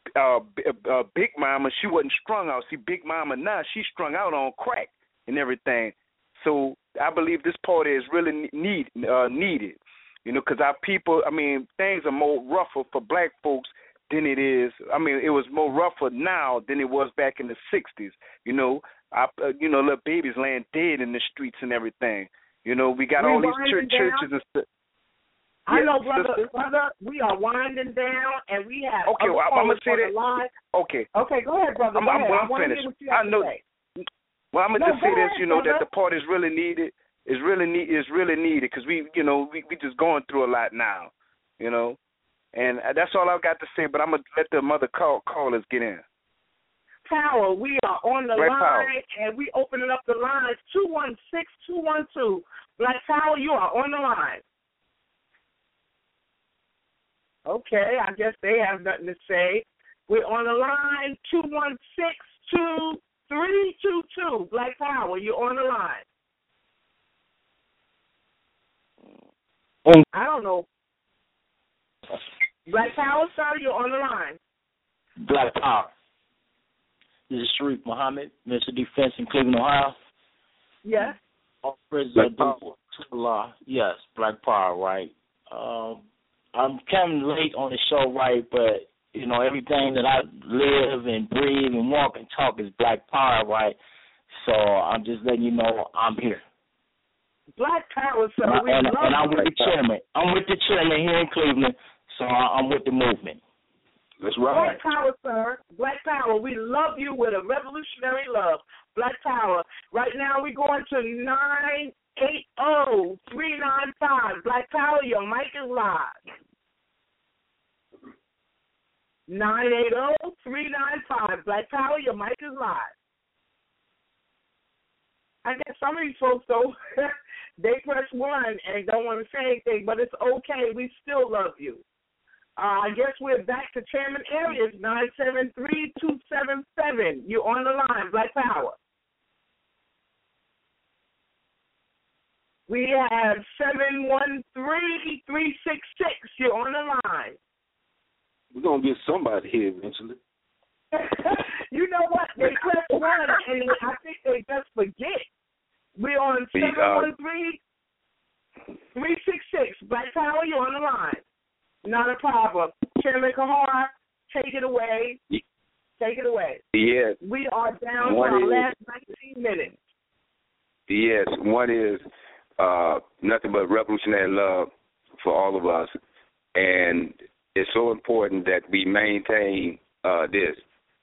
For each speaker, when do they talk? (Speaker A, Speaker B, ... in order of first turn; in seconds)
Speaker A: 0.1-24.6, 25.7-26.5, 29.1-31.1, 31.9-33.5, 34.5-42.0, 42.5-46.0, 48.4-48.9
Speaker B: 23.2-24.3, 25.7-30.5, 31.1-33.6, 34.8-35.8, 47.0-54.4, 57.5-66.0, 70.1-70.7, 72.7-74.4, 80.8-81.2, 97.6-99.5, 104.5-116.2, 119.3-122.9, 125.4-131.8, 132.6-138.7, 142.7-147.4, 150.9-155.2, 156.0-157.6, 158.9-161.2, 161.8-165.2, 166.0-166.6, 167.2-169.7
Speaker C: 75.2-75.9, 77.3-79.9, 81.6-86.0, 86.5-93.8, 94.4-96.4, 98.4-103.4
Speaker D: 82.2-82.7, 104.2-104.8, 148.5-150.2
Speaker E: 156.5-157.1, 166.7-167.2, 168.0-168.7, 170.9-172.0, 172.6-175.9, 176.5-180.6